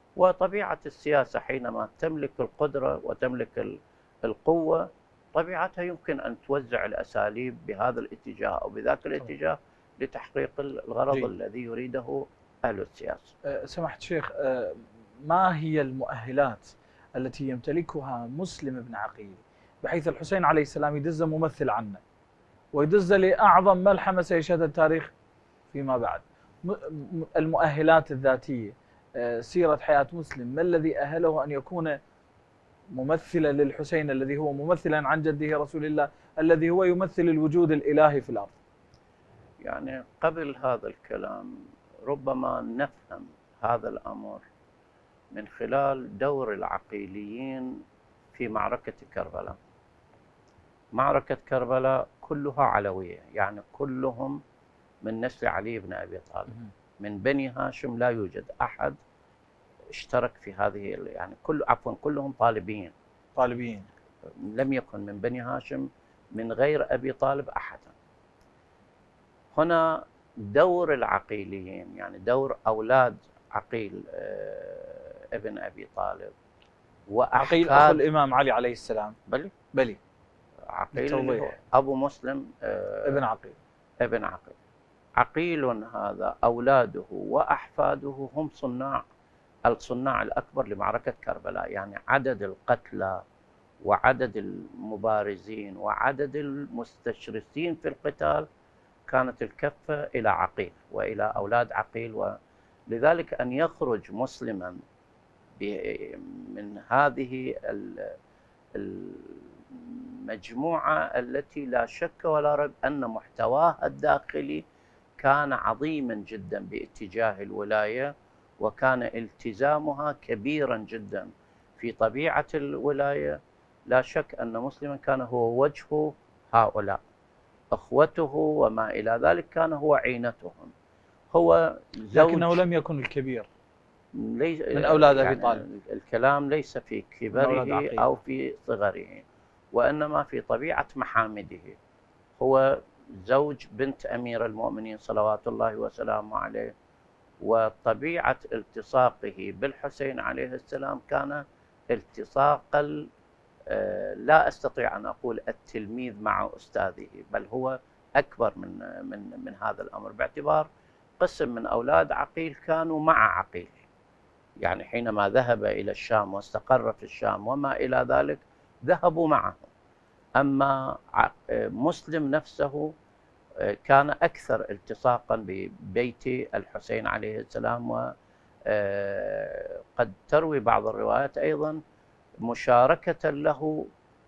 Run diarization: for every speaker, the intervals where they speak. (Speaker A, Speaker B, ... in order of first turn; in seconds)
Speaker A: 0.2-13.3, 39.6-44.4, 45.3-49.6, 50.9-54.4, 55.0-59.0, 59.9-62.9, 64.2-68.0, 69.5-76.3, 77.1-78.0, 79.3-79.5, 80.6-83.2, 84.0-84.6, 85.2-89.0, 89.7-93.2, 93.8-98.5, 99.1-102.3, 102.9-104.8, 105.6-108.2, 108.7-114.6, 115.2-123.4, 123.9-127.0, 127.7-130.7, 131.3-132.6, 134.1-141.8, 142.4-146.7, 147.4-153.0, 153.7-160.7, 161.2-163.8, 164.6-169.7, 170.4-172.9, 173.6-178.0, 178.7-181.8, 182.4-183.8
Speaker B: 13.4-22.0, 22.7-25.1, 25.7-32.0, 33.0-38.6, 63.4-63.9, 77.4-79.2, 79.7-80.0, 80.9-81.5, 83.0-83.5, 132.1-133.5, 134.7-135.6, 137.3-138.1